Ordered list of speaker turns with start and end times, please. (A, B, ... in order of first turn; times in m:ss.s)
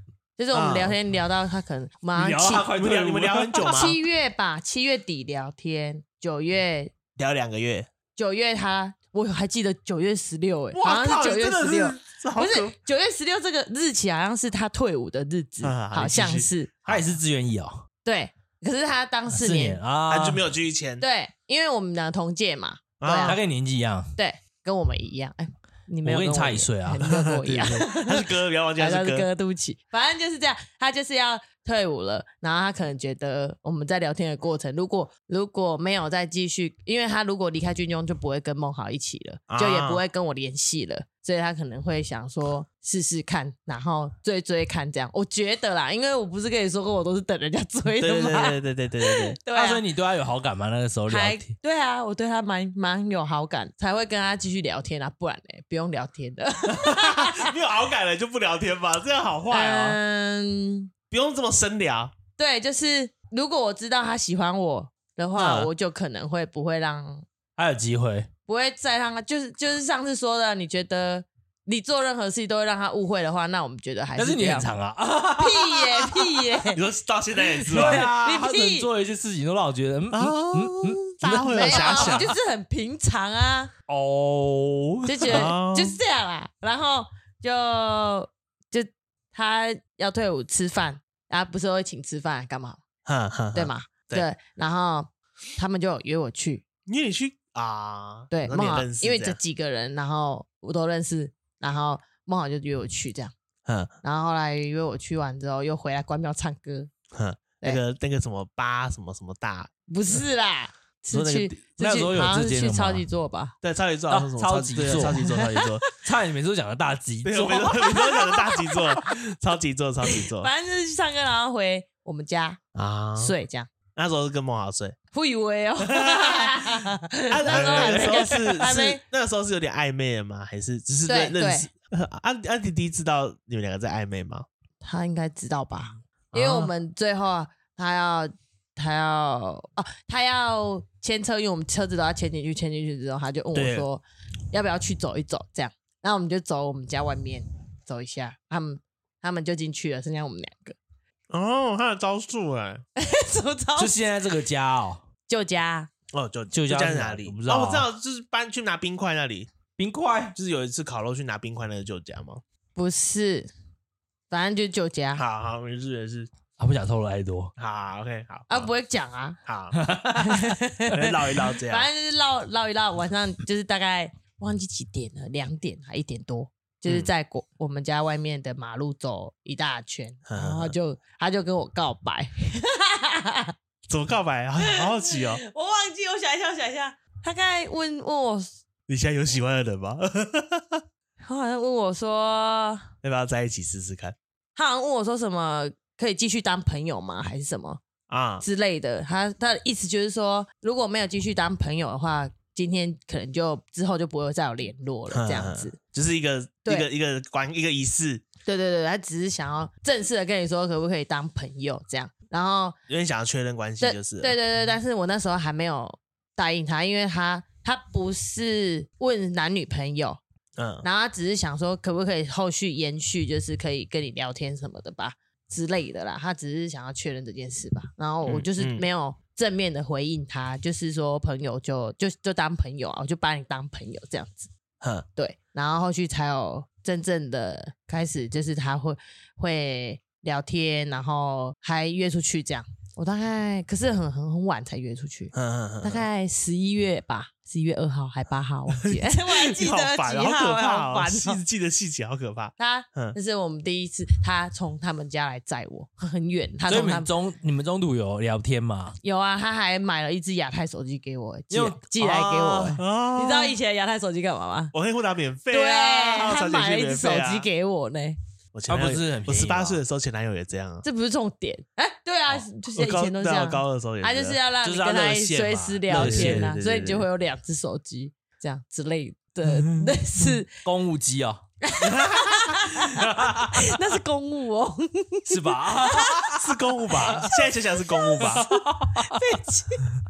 0:00.4-0:02.7 A
0:00.5-0:01.0 B
0:02.2-0:03.5 C
0:02.7-0:04.0 B
0:03.6-0:06.9 A
0:07.2-0:07.9 B
0:08.2-0:16.7 A
0:10.7-0:12.8 B
0:15.6-0:17.0 B
0:16.9-0:17.9 C
0:18.0-0:19.8 A
0:19.3-0:20.4 C
0:20.1-0:21.0 B
0:21.0-0:23.4 A
0:23.0-0:23.4 B
0:23.2-0:24.1 C
0:24.2-0:49.8 A
0:26.0-0:27.1 C
0:27.1-0:29.3 B
0:39.5-0:40.0 B
0:48.0-0:49.4 B
0:49.5-0:51.5 C
0:51.1-0:57.6 A
0:56.7-1:00.0 B
0:59.5-1:00.9 A
1:01.1-1:02.2 B
1:02.4-1:07.2 A
1:05.4-1:05.7 B
1:07.6-1:08.3 C
1:08.5-1:14.7 A
1:14.2-1:16.2 C
1:15.4-1:16.8 A
1:16.7-1:18.1 B
1:17.7-1:18.9 A
1:17.7-1:22.3 C
1:20.1-1:22.3 B
1:21.5-1:23.7 A
1:23.9-1:25.5 C
1:25.1-1:32.8 A
1:25.3-1:26.0 B
1:33.0-1:34.2 B
1:33.5-1:36.6 A
1:36.9-1:39.4 B
1:38.3-1:43.3 A
1:43.7-1:43.9 B
1:44.0-1:46.9 A
1:47.1-1:49.7 B
1:49.9-1:53.5 A
1:51.1-1:51.6 B
1:51.8-1:53.0 C
1:53.6-1:55.8 B
1:54.1-1:55.3 C
1:55.0-1:55.8 A
1:56.0-1:57.7 C
1:57.2-2:00.5 B
1:57.7-1:59.0 A
2:00.0-2:02.6 A
2:02.8-2:03.3 B
2:03.2-2:03.7 A
2:03.9-2:05.0 B
2:05.1-2:09.0 A
2:05.8-2:06.6 B
2:07.3-2:14.5 B
2:07.5-2:08.0 C
2:11.1-2:11.7 A
2:14.8-2:30.8 A
2:16.3-2:16.7 B
2:23.6-2:23.9 B
2:31.3-2:32.8 B
2:33.0-2:34.0 A
2:33.8-2:35.0 C
2:35.3-2:35.9 A
2:36.1-2:39.5 B
2:36.5-2:37.9 C
2:39.8-2:40.4 C
2:40.4-2:42.4 B
2:42.8-2:43.5 A
2:44.3-2:45.2 A
2:45.2-2:46.3 B
2:46.6-2:47.5 C
2:47.6-2:48.7 B
2:48.5-2:49.4 A
2:49.5-2:49.8 B
2:49.7-2:50.6 C
2:50.2-3:03.5 A
2:50.9-2:51.9 B
2:56.9-2:57.1 B
3:00.3-3:00.8 B
3:03.9-3:05.4 B
3:04.6-3:08.5 A
3:08.9-3:10.8 B
3:11.2-3:12.9 A
3:13.0-3:14.2 B
3:14.6-3:17.8 A
3:18.1-3:18.4 B
3:18.4-3:25.8 A
3:25.1-3:28.2 B
3:28.4-3:32.8 A
3:32.9-3:34.4 B
3:33.8-3:40.2 A
3:40.6-3:40.9 B
3:40.8-3:54.5 A
3:48.2-3:48.9 B
3:54.8-3:55.1 B
3:55.2-4:11.4 A
4:05.3-4:06.1 B
4:08.8-4:13.2 B
4:12.6-4:17.1 A
4:16.7-4:19.0 C
4:19.0-4:24.7 A
4:21.5-4:22.8 C
4:22.8-4:23.6 B
4:24.7-4:27.5 B
4:25.5-4:28.2 A
4:28.5-4:30.8 B
4:28.7-4:29.8 C
4:30.8-4:40.5 A
4:32.7-4:34.4 B
4:34.6-4:36.5 C
4:35.9-4:37.1 B
4:40.6-4:41.5 C
4:41.6-4:46.4 A
4:41.8-4:43.7 B
4:43.2-4:43.6 C
4:45.3-4:47.3 C
4:46.3-4:48.5 B
4:48.0-4:48.4 A
4:48.2-4:49.4 C
4:49.0-4:49.9 A